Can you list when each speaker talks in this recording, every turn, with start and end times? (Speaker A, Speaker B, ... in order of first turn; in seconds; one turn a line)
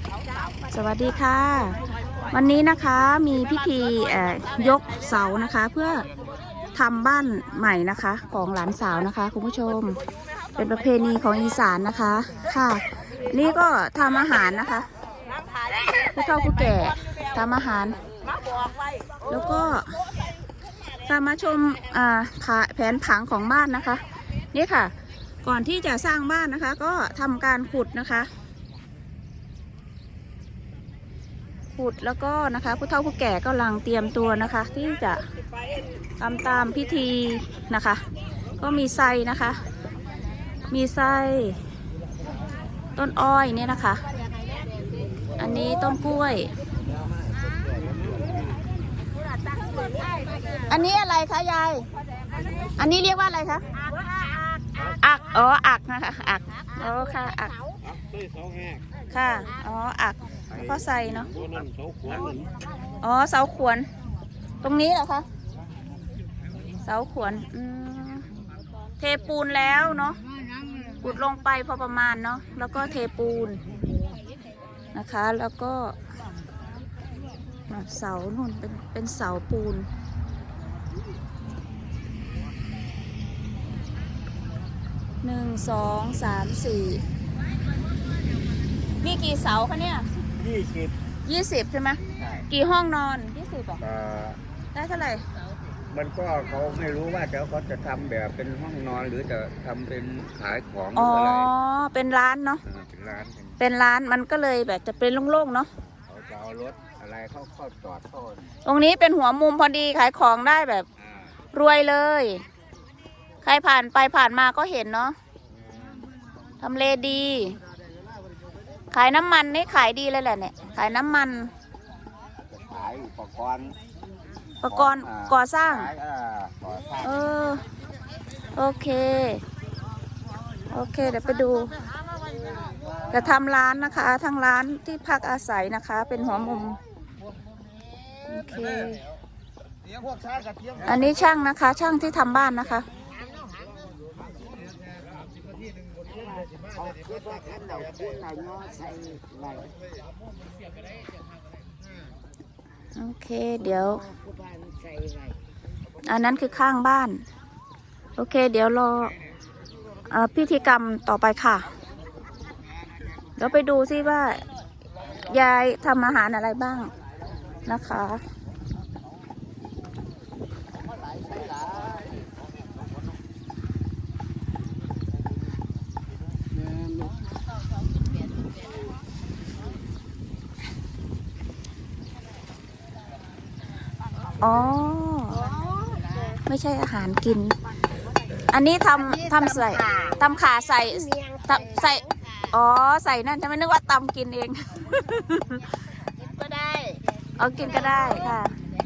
Speaker A: 0.7-1.8
Speaker A: 2.3-6.1
Speaker A: 6.7-10.0
Speaker A: 10.6-14.9
Speaker A: 16.0-18.0
Speaker A: 19.3-20.0
Speaker A: 21.0-24.9
Speaker A: 25.4-28.3
Speaker A: 31.8-35.2
Speaker A: 36.2-38.0
Speaker A: 38.6-39.6
Speaker A: 40.7-41.6
Speaker A: 43.0-44.0
Speaker B: 44.0-45.4
Speaker A: 45.4-46.5
Speaker C: 47.8-48.4
Speaker B: 49.4-50.7
Speaker A: 50.7-51.9
Speaker A: 52.8-53.6
Speaker B: 53.8-55.0
Speaker A: 55.0-57.5
Speaker B: 56.6-57.8
Speaker C: 58.0-58.8
Speaker A: 59.1-61.3
Speaker C: 60.5-60.8
Speaker C: 61.3-62.5
Speaker A: 63.0-63.9
Speaker A: 64.6-65.3
Speaker A: 66.8-68.3
Speaker A: 69.0-70.2
Speaker A: 71.0-73.6
Speaker A: 74.9-76.0
Speaker A: 77.7-79.9
Speaker A: 85.2-87.0
Speaker A: 89.0-90.1
Speaker C: 90.4-91.0
Speaker A: 91.2-93.8
Speaker C: 92.2-92.5
Speaker C: 93.8-94.4
Speaker A: 94.7-95.2
Speaker C: 95.9-101.5
Speaker A: 101.0-102.6
Speaker C: 102.7-103.6
Speaker A: 103.6-105.7
Speaker C: 106.0-108.5
Speaker A: 108.7-110.9
Speaker A: 111.5-112.4
Speaker A: 113.4-115.2
Speaker C: 115.7-116.1
Speaker A: 116.6-117.6
Speaker A: 118.9-121.5
Speaker C: 122.5-123.8
Speaker A: 124.6-125.9
Speaker C: 124.7-127.2
Speaker A: 127.0-127.6
Speaker A: 128.6-129.4
Speaker A: 130.7-131.8
Speaker A: 133.1-136.8
Speaker A: 138.3-139.0
Speaker A: 140.8-142.9
Speaker B: 143.1-143.7
Speaker C: 146.4-149.7
Speaker A: 152.9-154.0
Speaker A: 156.0-157.2
Speaker A: 158.2-159.2
Speaker A: 160.1-161.7
Speaker A: 163.4-164.4
Speaker A: 165.3-166.9
Speaker A: 167.7-168.2
Speaker A: 184.4-185.4
Speaker B: 185.3-186.4
Speaker A: 186.5-187.6
Speaker A: 188.5-195.6
Speaker B: 188.9-190.2
Speaker B: 190.9-192.3
Speaker B: 196.0-197.0
Speaker A: 197.4-198.6
Speaker B: 197.6-198.4